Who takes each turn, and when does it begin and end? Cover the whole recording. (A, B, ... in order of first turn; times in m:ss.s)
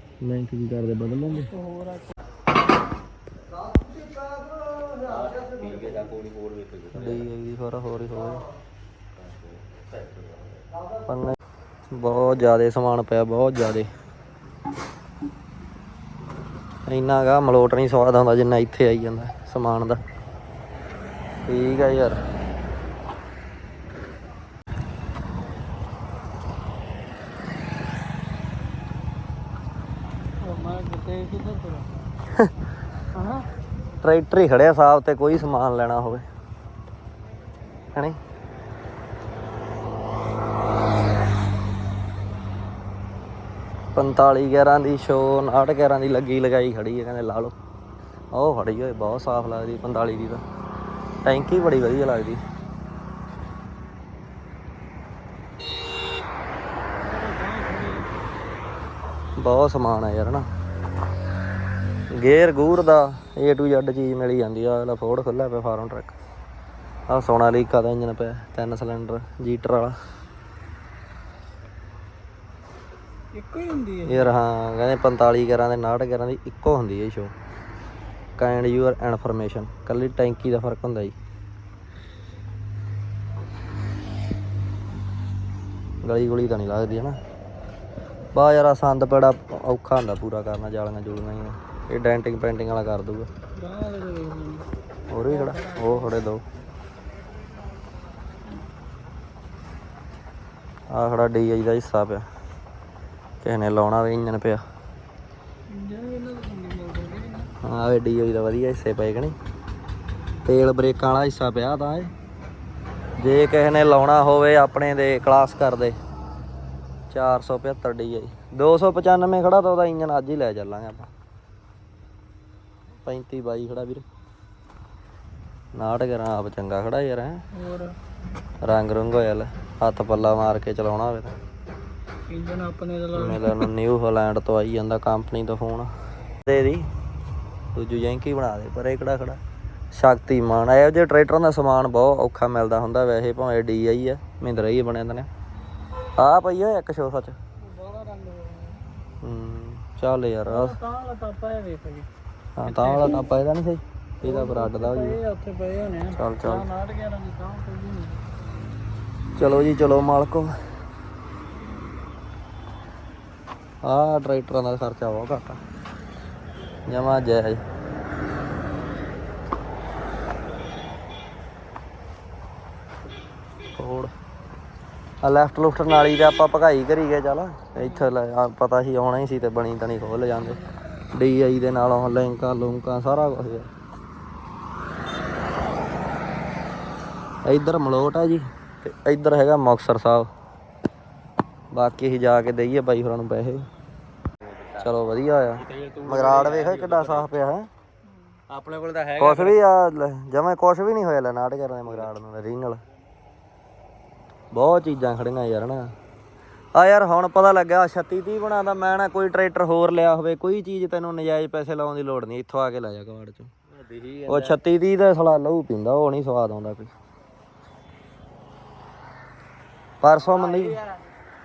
0:00.2-0:01.5 A
0:01.5-0:02.1 B
0:04.9-0:07.3 C
0:06.9-0:08.4 A
0:09.2-0:10.6 C
0:11.0-0:11.4 A
0:11.9-0:13.9 A
0:16.8-0:20.0 A
0:21.4-0:22.2 A
0:30.4-0:32.1 B
0:33.1-0:33.5 B
0:34.0-0:36.2 A
0:43.9-0:47.6 A
0:48.3-0:50.4 A
0:51.2-0:52.4 A
0:57.0-0:58.2 B
0:59.4-1:00.5 A
1:02.1-1:06.2 A
1:07.1-1:10.0 A
1:13.3-1:14.3 B
1:14.0-1:17.3 A
1:18.4-1:21.2 A
1:26.0-1:27.2 A
1:28.3-1:33.3 A
1:33.6-1:36.2 B
1:35.1-1:36.4 A
1:40.9-1:42.2 A
1:43.4-1:44.6 A
1:45.7-1:47.5 B
1:47.6-1:49.4 A
1:50.4-1:52.1 A
1:53.2-1:56.0 A
1:57.1-2:01.1 A
2:03.0-2:04.0 A
2:05.8-2:07.4 A
2:07.5-2:07.9 B
2:08.6-2:11.4 A
2:12.3-2:13.7 B
2:13.1-2:15.9 A
2:16.4-2:16.9 A
2:17.7-2:19.4 A
2:19.9-2:25.3 A
2:26.2-2:27.4 A
2:27.6-2:28.8 B
2:29.2-2:30.8 A
2:30.5-2:32.1 B
2:32.6-2:35.2 A
2:32.6-2:33.3 B
2:34.2-2:38.2 B
2:36.1-2:36.6 A
2:39.4-2:40.5 A
2:43.8-2:45.6 A
2:46.9-2:47.6 A
2:53.8-2:54.1 A
2:55.2-3:00.6 A
2:57.8-2:58.1 B
3:01.1-3:03.7 A
3:07.4-3:10.3 A
3:11.7-3:13.7 A
3:14.4-3:15.0 C
3:14.8-3:17.7 A
3:15.5-3:17.3 C
3:18.5-3:19.6 C
3:19.2-3:22.8 A
3:21.8-3:22.1 C
3:24.5-3:25.9 A
3:26.7-3:33.5 A
3:33.7-3:34.6 C
3:34.3-3:36.9 A
3:40.0-3:40.8 A
3:40.2-3:41.0 C